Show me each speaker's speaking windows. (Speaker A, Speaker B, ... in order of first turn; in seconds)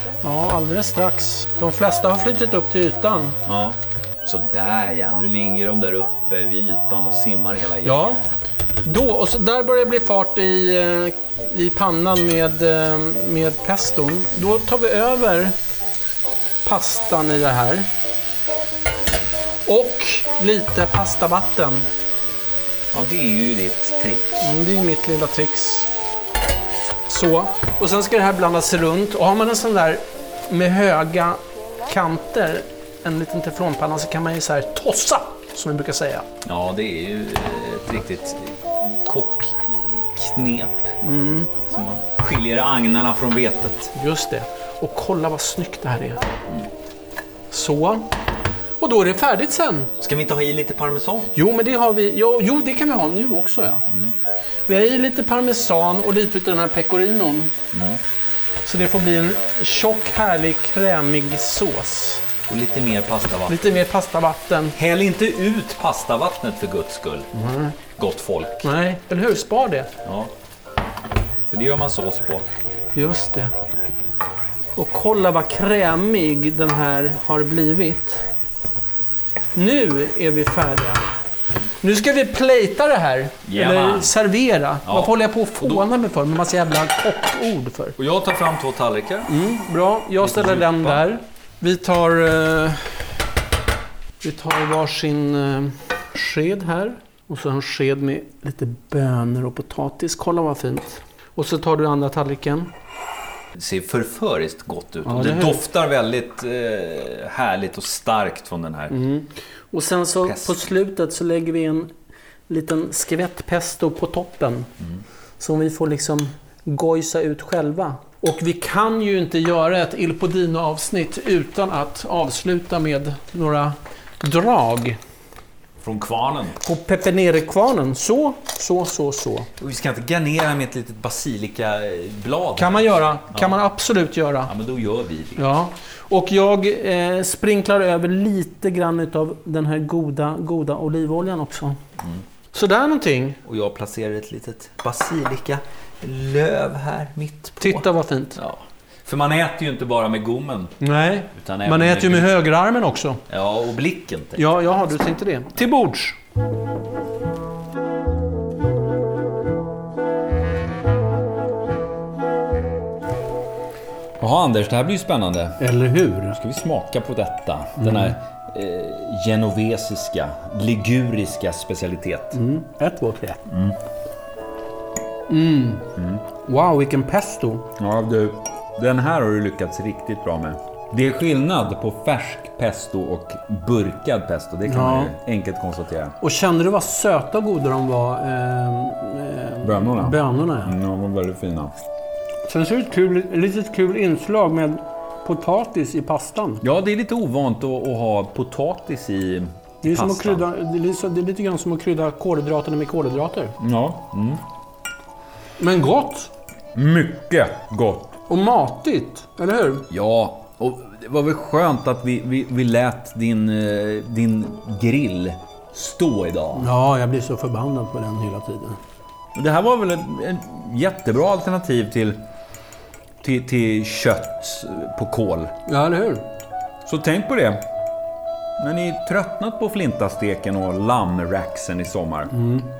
Speaker A: 0.2-3.4, 7.8-8.2, 8.8-15.6, 16.6-17.9, 19.6-21.9, 24.4-25.9, 27.1-36.2, 41.0-41.5, 43.9-46.3, 47.5-48.1, 48.8-49.9, 51.3-53.8, 54.7-57.5, 58.6-62.2, 63.5-64.7, 67.3-67.8, 68.6-69.9, 72.9-73.5, 74.7-78.2, 79.5-81.0, 81.8-88.0, 89.3-93.1, 94.2-102.7, 105.0-105.6, 108.9-111.9, 112.5-114.7, 115.4-125.0, 126.6-129.5, 132.6-134.5, 135.4-141.8, 142.5-143.4, 147.6-148.4, 150.8-153.2, 154.3-156.2, 165.6-166.4, 167.8-168.2, 172.3-173.4, 175.3-177.7, 184.7-185.1, 186.2-190.7, 192.5-196.6, 199.8-203.6, 205.6-206.3, 208.3-209.9, 216.5-218.8, 225.7-226.2, 232.3-232.7
Speaker B: 3.5-8.3, 22.9-24.4, 36.4-41.0, 41.7-43.9, 50.0-51.3, 53.9-54.1, 57.7-58.0, 62.5-63.8, 64.7-67.3, 68.0-68.7, 70.0-70.3, 71.5-72.5, 83.5-84.1, 84.8-85.8, 88.0-89.3, 90.2-91.0, 103.5-108.9, 110.2-110.6, 125.8-126.6, 129.6-133.6, 134.4-135.4, 143.4-150.8, 151.3-152.4, 153.3-154.8, 164.2-165.6, 166.3-172.3, 173.5-173.8, 177.8-186.2, 189.6-191.7, 196.6-200.5, 203.6-204.4, 206.7-208.1, 209.9-216.7, 219.3-222.2, 223.2-225.5, 226.8-227.6, 228.6-232.3